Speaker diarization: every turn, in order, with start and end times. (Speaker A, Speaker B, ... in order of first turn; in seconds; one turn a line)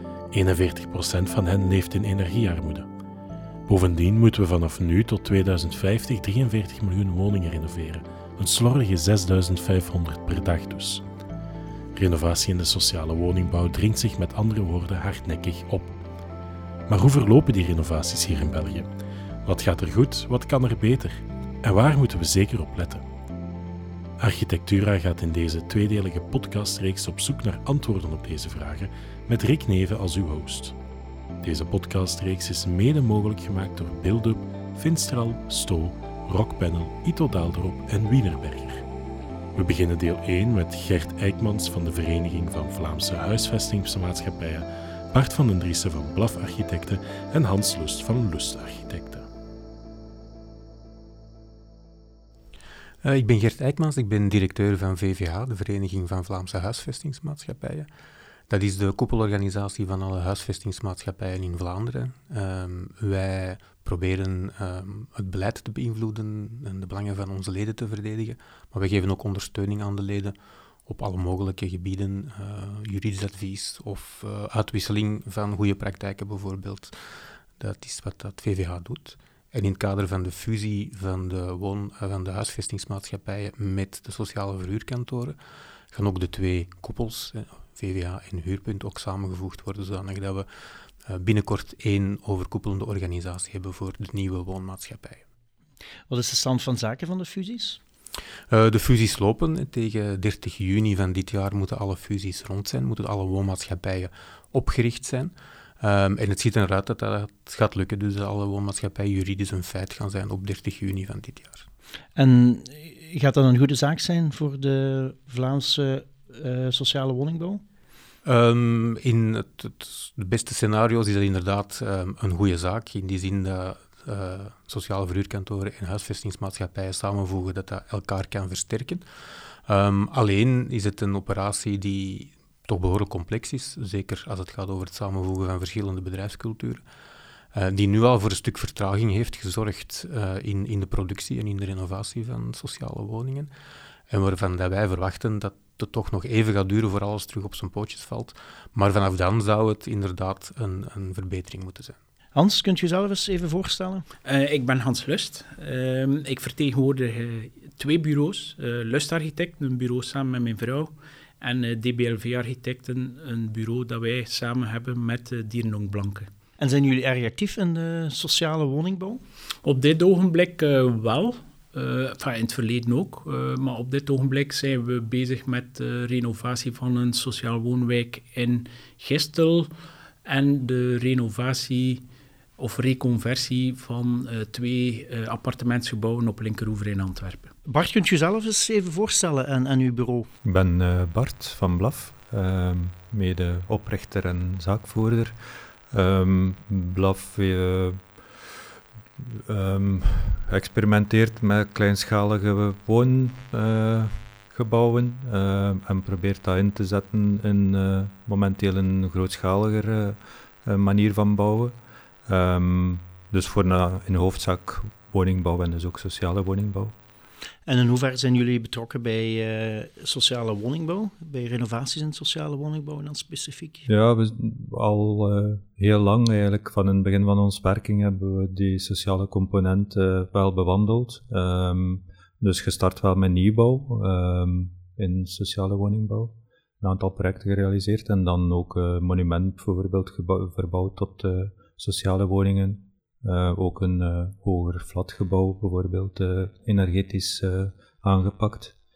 Speaker A: 0.3-2.9
Speaker A: 3.7-11.0
Speaker A: 11.9-15.9
Speaker A: 16.9-18.9
Speaker A: 19.4-23.0
Speaker A: 24.2-30.8
Speaker A: 31.4-38.8
Speaker A: 39.5-49.3
Speaker B: 53.0-57.9
Speaker B: 58.5-70.3
Speaker B: 70.8-76.9
Speaker B: 77.6-85.4
Speaker B: 85.9-90.5
Speaker B: 91.0-95.2
Speaker C: 96.1-97.8
Speaker B: 98.5-111.7
Speaker C: 112.2-117.6
Speaker B: 118.2-129.0
Speaker B: 129.7-136.8
Speaker B: 137.5-143.5
Speaker B: 144.1-152.0
Speaker C: 152.3-154.0
Speaker D: 154.2-166.3
Speaker C: 166.6-169.2
Speaker D: 169.6-179.7
Speaker D: 180.2-182.0
Speaker D: 182.6-187.5
Speaker C: 187.7-190.3
Speaker E: 190.4-195.3
Speaker E: 195.9-198.1
Speaker E: 199.2-211.7
Speaker E: 212.2-216.9
Speaker C: 217.7-223.9
Speaker E: 223.9-248.7